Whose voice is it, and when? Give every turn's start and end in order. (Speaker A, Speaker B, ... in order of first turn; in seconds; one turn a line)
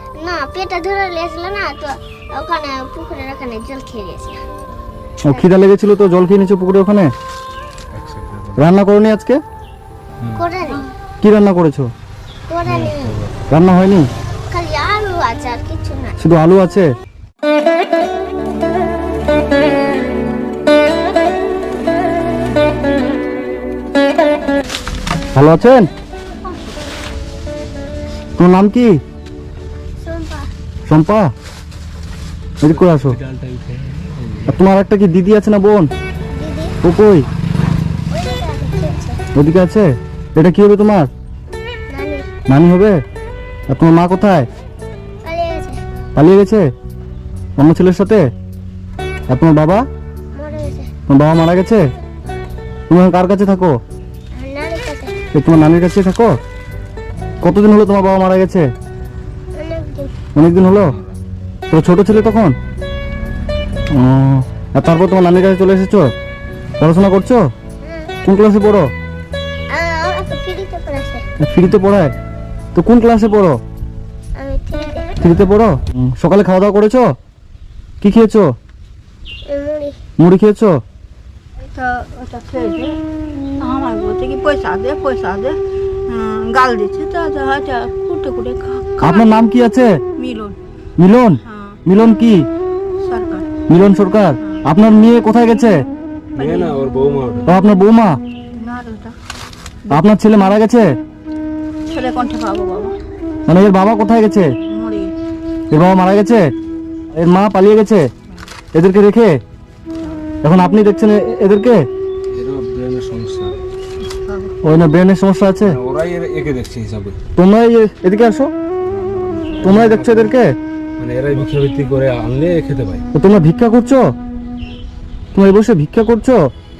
Speaker A: 0.2-4.4
Speaker B: 5.2-7.1
Speaker C: 8.0-8.6
Speaker B: 8.6-9.4
Speaker A: 10.3-10.9
Speaker B: 11.2-11.9
Speaker A: 12.5-13.2
Speaker C: 12.6-13.3
Speaker B: 13.5-14.1
Speaker A: 14.5-16.2
Speaker B: 16.2-16.9
Speaker B: 25.3-25.9
Speaker B: 28.4-28.9
Speaker A: 30.0-30.5
Speaker B: 30.9-31.3
Speaker B: 32.6-33.2
Speaker C: 32.6-34.6
Speaker B: 34.5-35.9
Speaker A: 36.3-36.8
Speaker B: 36.8-37.3
Speaker A: 38.1-39.2
Speaker B: 39.3-41.1
Speaker A: 41.9-42.2
Speaker B: 42.5-43.0
Speaker B: 43.7-44.5
Speaker A: 45.2-45.8
Speaker B: 46.1-46.7
Speaker B: 47.6-48.3
Speaker B: 49.3-49.8
Speaker A: 50.3-50.9
Speaker B: 51.1-51.9
Speaker B: 52.9-53.7
Speaker A: 54.3-55.1
Speaker B: 55.3-56.4
Speaker B: 57.4-58.7
Speaker A: 59.5-60.1
Speaker B: 60.3-60.9
Speaker C: 60.5-61.2
Speaker B: 61.7-62.5
Speaker B: 63.9-66.1
Speaker B: 66.8-67.4
Speaker A: 67.8-68.1
Speaker B: 68.2-68.9
Speaker A: 69.7-71.2
Speaker B: 71.4-72.1
Speaker B: 72.7-73.6
Speaker A: 74.3-75.1
Speaker B: 75.2-77.1
Speaker B: 78.0-78.5
Speaker A: 79.5-80.0
Speaker B: 80.2-80.8
Speaker D: 81.7-83.0
Speaker D: 83.6-89.3
Speaker B: 89.0-89.9
Speaker D: 90.2-90.6
Speaker B: 91.0-92.5
Speaker D: 91.4-91.8
Speaker D: 93.0-93.5
Speaker B: 93.7-95.8
Speaker C: 96.3-97.5
Speaker D: 96.4-96.8
Speaker B: 97.5-98.2
Speaker D: 98.5-99.1
Speaker B: 99.9-100.9
Speaker D: 101.9-102.9
Speaker B: 103.5-104.5
Speaker D: 104.7-105.1
Speaker B: 105.7-106.5
Speaker B: 107.1-108.0
Speaker B: 108.7-109.3
Speaker B: 110.4-111.8
Speaker C: 112.3-113.5
Speaker D: 114.2-114.5
Speaker B: 114.6-115.8
Speaker C: 115.6-117.2
Speaker B: 117.3-118.5
Speaker C: 119.4-120.3
Speaker B: 119.6-120.5
Speaker C: 121.0-123.0
Speaker B: 123.1-124.0
Speaker B: 125.3-126.4